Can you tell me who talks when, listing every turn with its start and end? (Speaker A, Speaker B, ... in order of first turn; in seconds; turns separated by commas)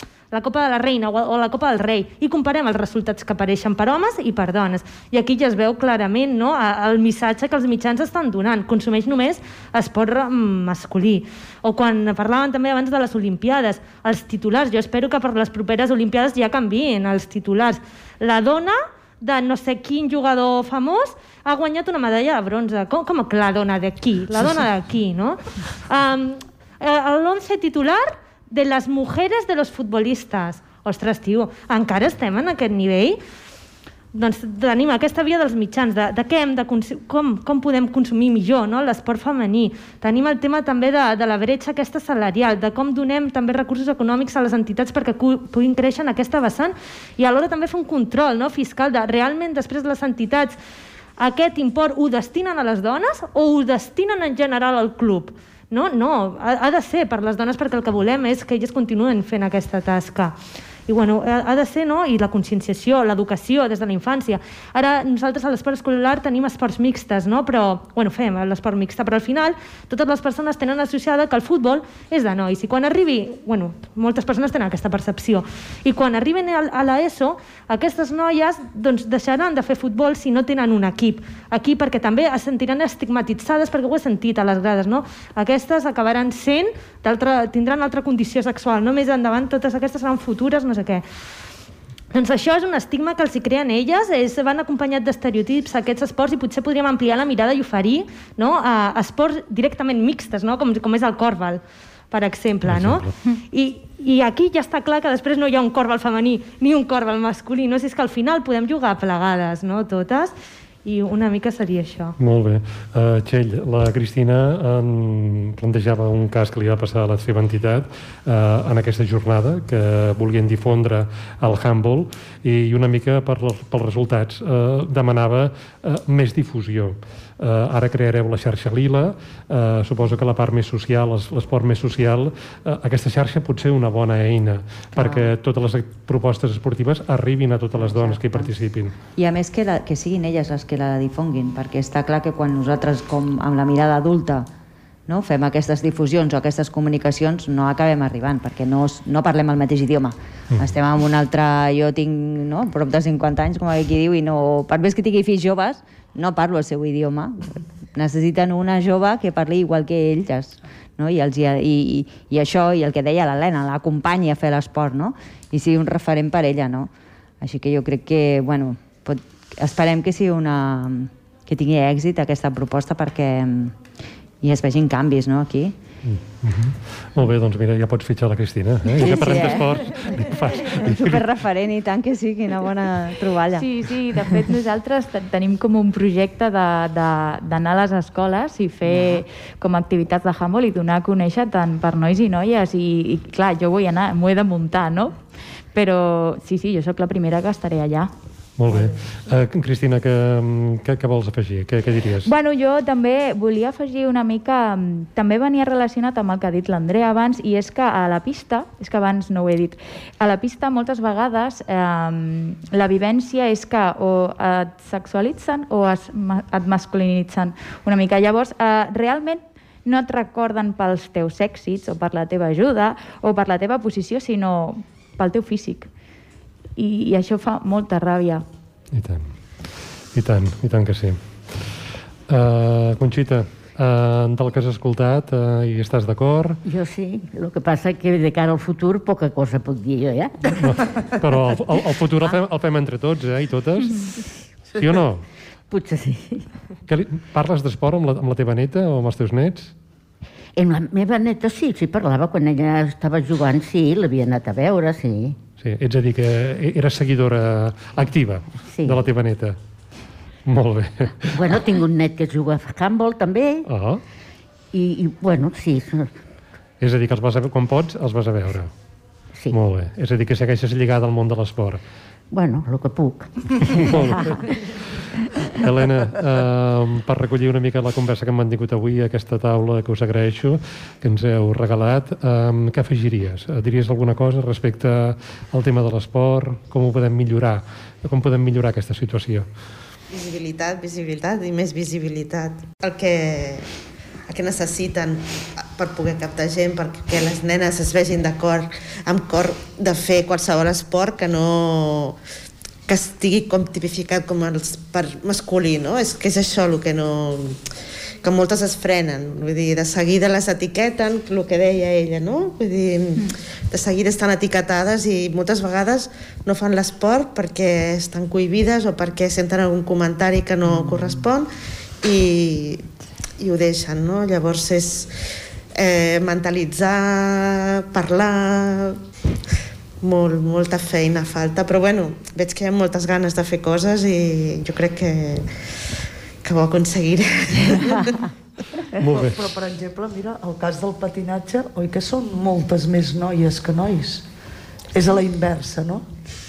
Speaker A: 0.3-33.2, Speaker A: 34.1-50.6, Speaker A: 51.2-60.4, Speaker A: 60.9-91.0, Speaker A: 92.1-112.2, Speaker B: 102.7-103.1, Speaker B: 112.2-138.9, Speaker C: 135.0-135.3, Speaker C: 137.8-138.5, Speaker C: 139.2-144.5, Speaker C: 145.1-173.8, Speaker C: 174.4-175.8, Speaker B: 176.0-181.2, Speaker C: 178.9-183.7, Speaker D: 183.5-195.2, Speaker D: 195.7-198.1, Speaker B: 198.6-202.3, Speaker D: 202.2-225.9, Speaker D: 226.8-228.4, Speaker B: 228.9-229.3, Speaker B: 230.2-231.2, Speaker B: 232.3-236.6, Speaker E: 236.7-241.4, Speaker B: 240.6-245.2, Speaker E: 245.7-246.5, Speaker B: 246.9-249.7, Speaker E: 250.6-255.4, Speaker B: 255.6-259.6, Speaker E: 258.7-259.0, Speaker B: 260.5-261.6, Speaker E: 261.3-263.7, Speaker B: 263.7-264.0, Speaker E: 264.7-266.1, Speaker B: 266.8-268.7, Speaker B: 269.5-271.8, Speaker E: 272.3-274.6, Speaker B: 273.6-274.4, Speaker B: 275.6-289.5, Speaker F: 290.1-293.7, Speaker F: 294.3-302.2, Speaker F: 302.9-307.7, Speaker F: 308.2-321.5, Speaker C: 320.8-321.1, Speaker F: 322.0-322.9, Speaker F: 323.4-325.1, Speaker F: 325.7-329.0, Speaker F: 330.0-335.9, Speaker F: 336.4-338.2, Speaker G: 339.0-344.3, Speaker B: 339.0-339.5, Speaker G: 344.9-346.1